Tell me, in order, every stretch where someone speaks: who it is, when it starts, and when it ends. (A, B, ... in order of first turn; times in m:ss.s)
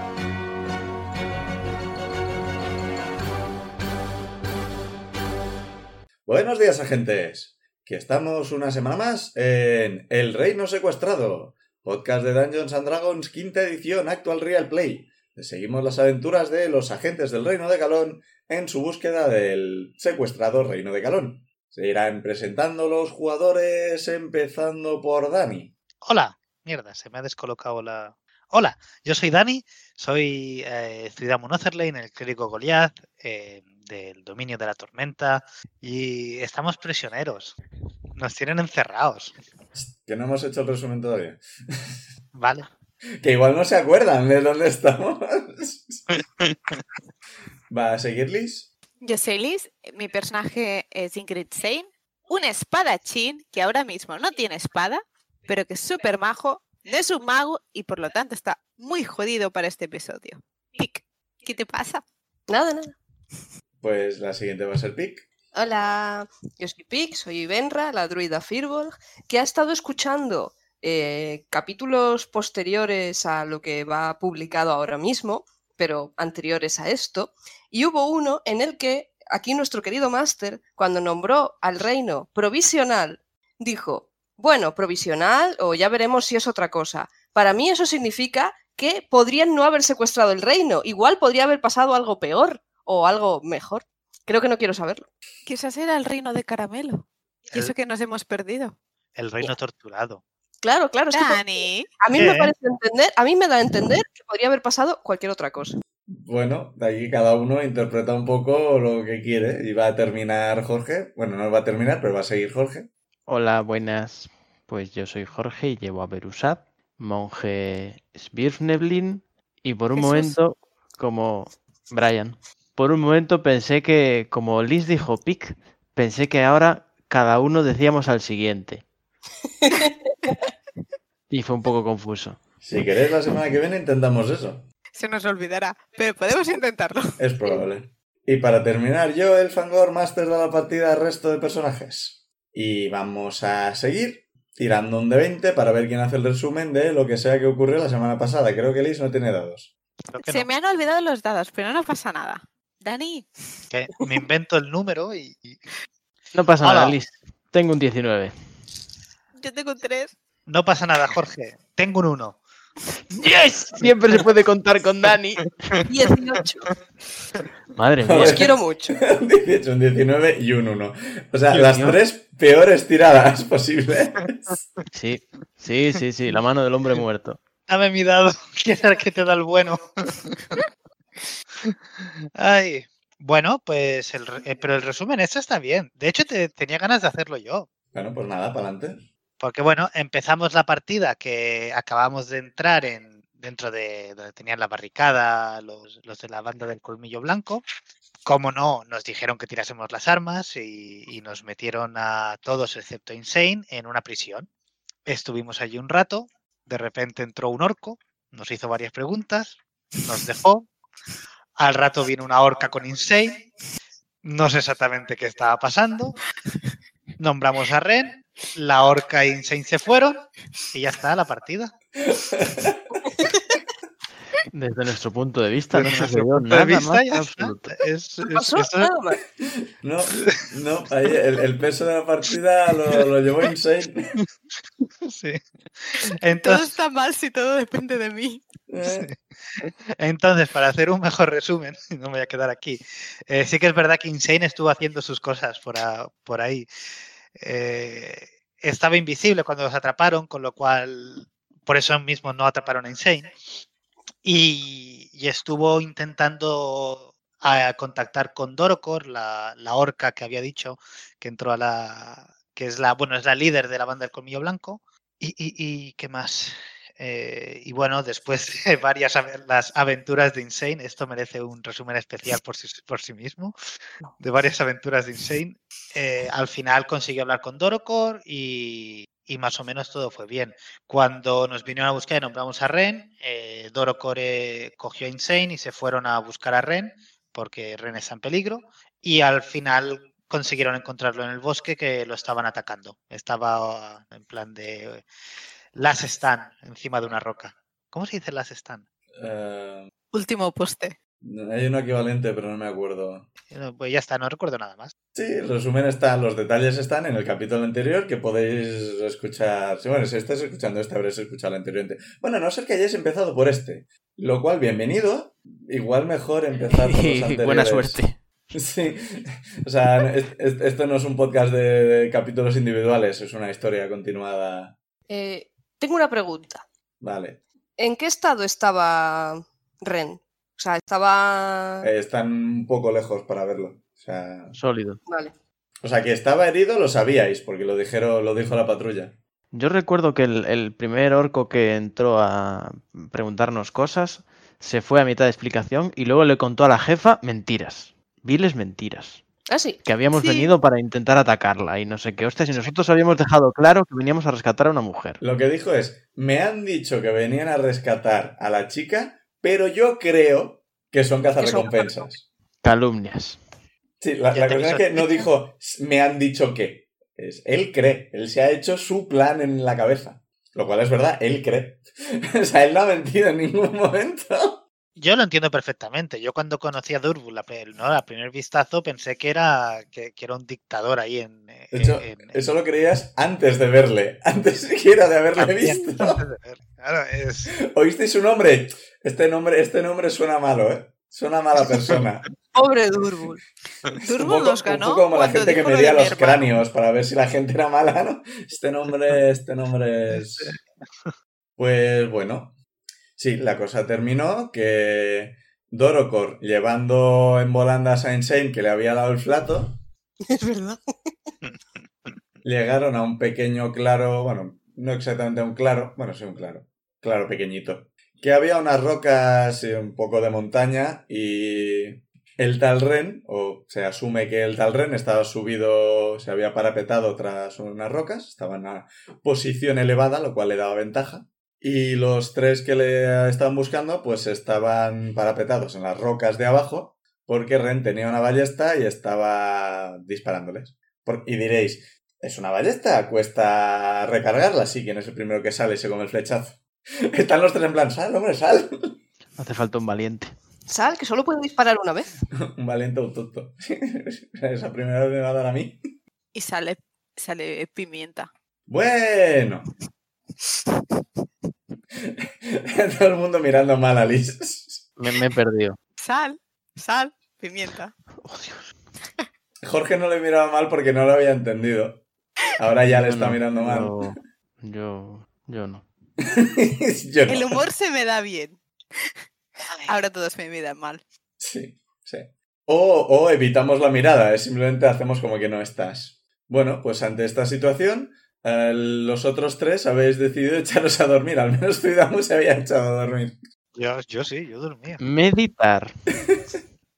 0:06.2-0:25.7 A
0:26.0-0:37.6 B
0:38.1-0:39.4 B
0:39.7-0:42.0 A
0:42.3-0:42.7 B
0:43.2-0:46.0 A
0:46.1-0:46.8 B
0:47.7-0:48.7 A
0:49.0-1:02.0 C
1:02.5-1:03.0 D
1:03.8-1:05.2 A
1:05.5-1:35.1 D
1:35.4-1:38.8 C
1:39.1-1:40.2 B
1:40.6-1:45.8 D
1:41.1-1:41.9 C
1:42.1-1:42.5 B
1:46.1-1:52.9 A
1:53.3-2:08.8 E
2:00.0-2:00.3 D
2:09.6-2:09.9 D
2:11.3-2:12.4 E
2:12.6-2:14.6 A
2:14.9-2:17.1 C
2:17.2-2:29.7 A
2:30.1-2:30.5 B
2:30.2-2:33.3 C
2:33.7-2:35.6 B
2:36.3-2:38.3 E
2:36.6-2:37.0 B
2:39.4-2:40.1 C
2:40.5-2:42.4 B
2:43.1-2:45.5 E
2:43.8-2:44.2 B
2:45.9-2:46.7 D
2:47.8-2:48.5 E
2:48.0-2:54.5 A
2:48.2-2:49.0 D
2:51.5-2:51.8 B
2:51.6-2:52.0 E
2:54.9-2:57.4 E
2:57.7-3:00.6 B
3:01.6-3:07.7 B
3:07.9-3:09.0 A
3:09.4-3:17.6 B
3:18.2-3:24.5 B
3:25.0-3:30.7 B
3:31.6-3:33.4 B
3:34.2-3:36.2 B
3:37.2-3:41.7 B
3:42.0-3:42.8 A
3:44.5-3:47.8 E
3:45.7-3:48.9 B
3:48.3-3:49.2 D
3:49.8-3:54.0 A
3:50.1-3:50.4 B
3:55.0-3:56.8 B
3:56.4-3:58.4 C
3:58.7-3:59.1 A
3:58.8-4:06.7 B
4:07.3-4:13.3 B
4:14.2-4:33.5 B
4:34.2-4:55.0 B
4:55.7-4:58.8 B
4:59.2-4:59.9 A
5:00.1-5:01.0 C
5:01.2-5:03.3 A
5:03.5-5:04.9 B
5:05.1-5:18.0 A
5:16.7-5:18.2 E
5:18.5-5:24.7 A
5:25.1-5:26.6 D
5:27.0-5:27.4 A
5:27.8-5:31.9 D
5:31.8-5:34.6 A
5:34.5-5:35.0 E
5:35.1-5:35.3 D
5:35.8-5:39.1 A
5:39.5-5:49.2 E
5:49.5-5:49.8 D
5:49.8-5:55.2 E
5:50.2-5:50.5 C
5:55.2-6:02.2 A
6:01.4-6:02.1 D
6:02.6-6:03.4 E
6:04.0-6:14.6 A
6:04.3-6:05.2 B
6:14.9-6:22.4 B
6:21.7-6:26.2 A
6:25.4-6:27.5 B
6:27.6-6:32.2 A
6:32.5-6:33.4 D
6:34.0-6:36.6 C
6:34.0-6:40.6 A
6:41.6-6:42.6 A
6:43.2-6:49.8 A
6:50.2-6:50.8 D
6:52.4-7:29.0 A
7:29.4-7:30.3 E
7:30.7-7:32.1 D
7:32.4-7:35.8 A
7:36.3-7:38.3 C
7:38.7-7:39.7 A
7:40.4-7:40.8 C
7:42.0-7:44.9 A
7:45.0-7:45.8 E
7:46.0-7:47.9 C
7:48.2-7:48.6 E
7:49.6-7:52.0 A
7:52.6-7:54.0 A
7:52.8-7:55.8 E
7:56.2-7:57.6 A
7:57.3-7:58.6 C
7:59.7-8:00.0 B
7:59.8-8:01.0 C
8:01.4-8:13.4 A
8:13.7-8:15.0 B
8:15.0-8:15.9 E
8:16.2-8:16.6 A